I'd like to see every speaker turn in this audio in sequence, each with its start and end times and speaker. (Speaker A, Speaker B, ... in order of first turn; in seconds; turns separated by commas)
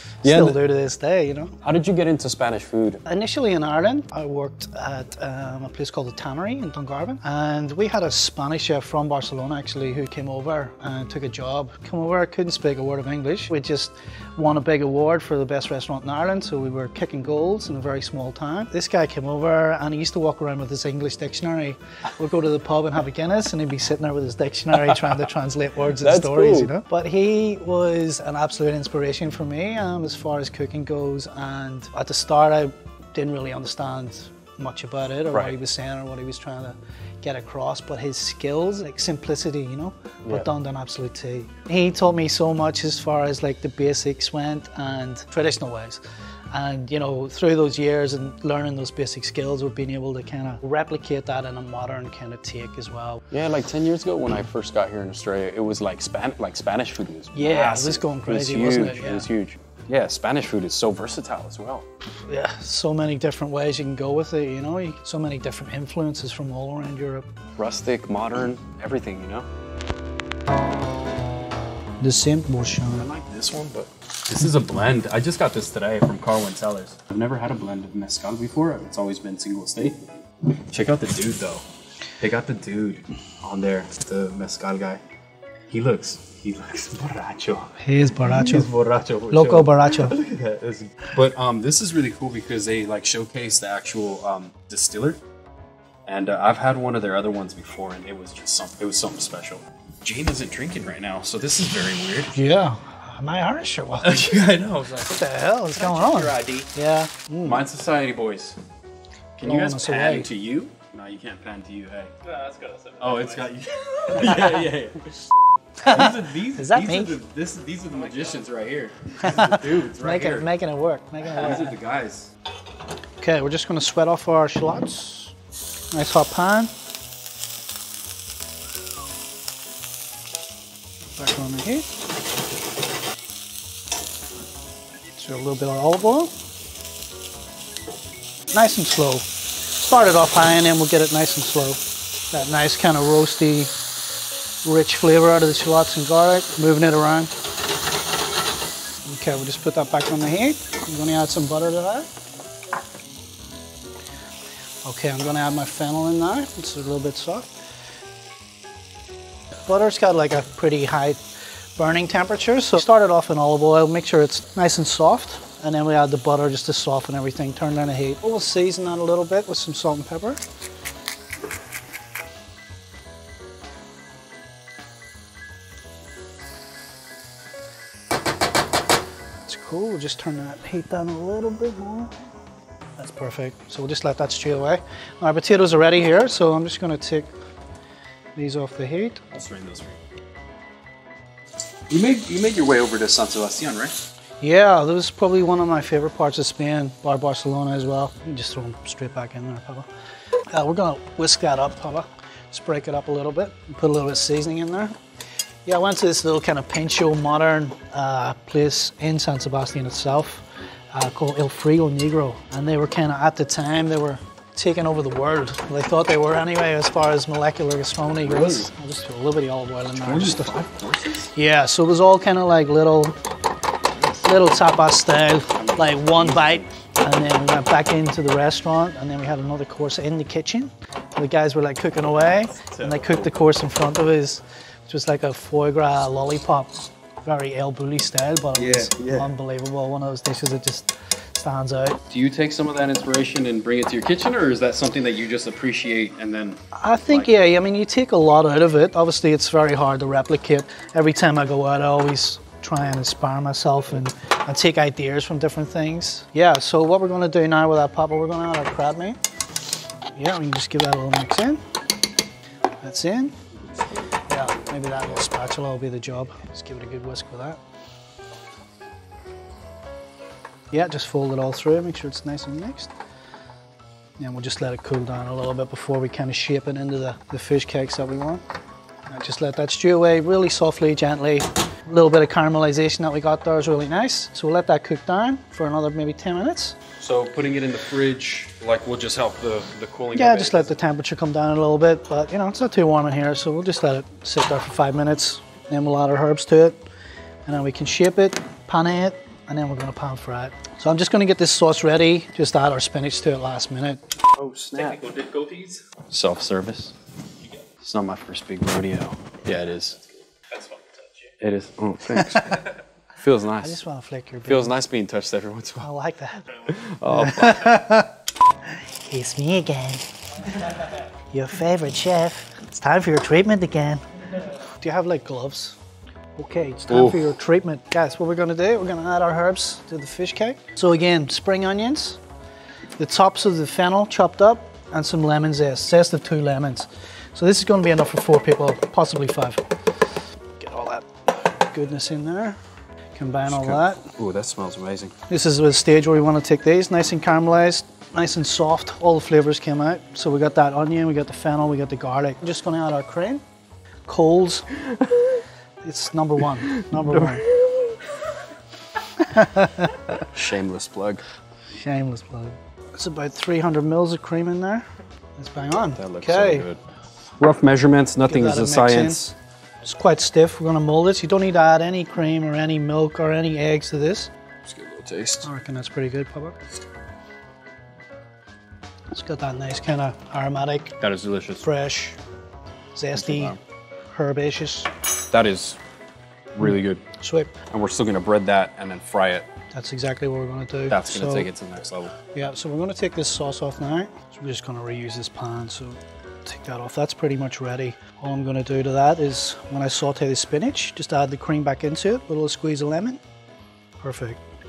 Speaker A: 0.2-1.6, Speaker B: 0.2-0.6, Speaker B: 1.6-3.0, Speaker A: 3.0-53.2, Speaker B: 24.8-25.2, Speaker B: 26.0-26.7, Speaker B: 53.3-61.9, Speaker A: 57.3-59.3, Speaker A: 62.3-67.3, Speaker B: 67.5-69.5, Speaker A: 72.0-73.1, Speaker B: 72.9-81.6, Speaker B: 82.2-85.0, Speaker B: 85.7-95.2, Speaker A: 87.8-88.7, Speaker A: 89.3-90.2, Speaker B: 96.0-102.3, Speaker A: 102.3-104.1, Speaker B: 104.0-106.7, Speaker A: 105.0-107.6, Speaker B: 107.4-108.6, Speaker B: 109.4-112.1, Speaker A: 109.4-110.3, Speaker C: 112.2-113.5, Speaker B: 113.0-115.2, Speaker A: 115.8-117.2, Speaker B: 115.8-120.5, Speaker C: 118.1-118.4, Speaker A: 119.2-121.7, Speaker B: 121.2-122.3, Speaker A: 123.2-125.3, Speaker A: 125.9-126.7, Speaker A: 131.2-131.8, Speaker A: 135.1-136.3, Speaker A: 138.5-143.7, Speaker A: 144.6-147.3, Speaker A: 149.0-152.1, Speaker A: 154.8-157.5, Speaker A: 159.7-161.2, Speaker A: 161.8-170.4, Speaker A: 179.5-182.1, Speaker A: 183.0-187.3, Speaker A: 188.3-189.2, Speaker B: 189.3-190.0, Speaker B: 191.9-193.9, Speaker A: 194.4-199.9, Speaker A: 200.5-204.9, Speaker A: 205.7-220.5, Speaker B: 218.2-218.7, Speaker B: 220.0-221.3, Speaker A: 221.3-223.2, Speaker B: 223.9-224.2, Speaker A: 224.2-242.0, Speaker B: 225.5-226.7, Speaker B: 232.3-233.3, Speaker B: 238.5-239.3, Speaker B: 242.1-247.3, Speaker A: 246.7-259.2, Speaker A: 260.1-261.6, Speaker A: 262.8-263.4, Speaker B: 263.7-264.0, Speaker A: 264.3-267.6, Speaker A: 270.7-272.9, Speaker A: 274.2-278.4, Speaker A: 279.1-286.8, Speaker B: 287.0-290.8, Speaker A: 290.1-296.8, Speaker A: 297.4-304.1, Speaker B: 304.3-306.9, Speaker C: 304.8-305.8, Speaker B: 307.7-310.0, Speaker C: 310.5-311.3, Speaker B: 311.4-313.8, Speaker A: 312.1-312.6, Speaker A: 313.6-314.8, Speaker B: 314.4-315.9, Speaker A: 315.8-318.1, Speaker B: 316.6-317.8, Speaker A: 318.6-320.7, Speaker A: 321.3-324.0, Speaker A: 324.6-325.8, Speaker A: 326.4-332.2, Speaker B: 326.9-327.3, Speaker A: 333.0-339.6, Speaker A: 340.6-342.6, Speaker A: 343.1-344.1, Speaker B: 343.4-345.1, Speaker A: 345.3-353.4, Speaker A: 354.1-354.7, Speaker B: 354.9-355.3, Speaker A: 355.8-357.5, Speaker B: 356.9-358.1, Speaker A: 359.2-360.1, Speaker B: 360.1-361.2, Speaker A: 361.7-364.9, Speaker A: 365.4-366.7, Speaker B: 365.9-366.8, Speaker B: 367.4-369.2, Speaker A: 368.2-374.3, Speaker B: 374.6-375.5, Speaker A: 375.4-376.6, Speaker A: 379.1-381.0, Speaker B: 381.0-381.6, Speaker A: 381.6-382.2, Speaker A: 382.9-383.6, Speaker B: 383.1-383.6, Speaker A: 384.1-384.9, Speaker B: 385.3-385.8, Speaker B: 386.5-387.0, Speaker A: 387.2-387.5, Speaker B: 387.7-389.5, Speaker A: 389.7-391.5, Speaker B: 390.9-392.1, Speaker A: 392.3-403.2, Speaker A: 404.0-404.4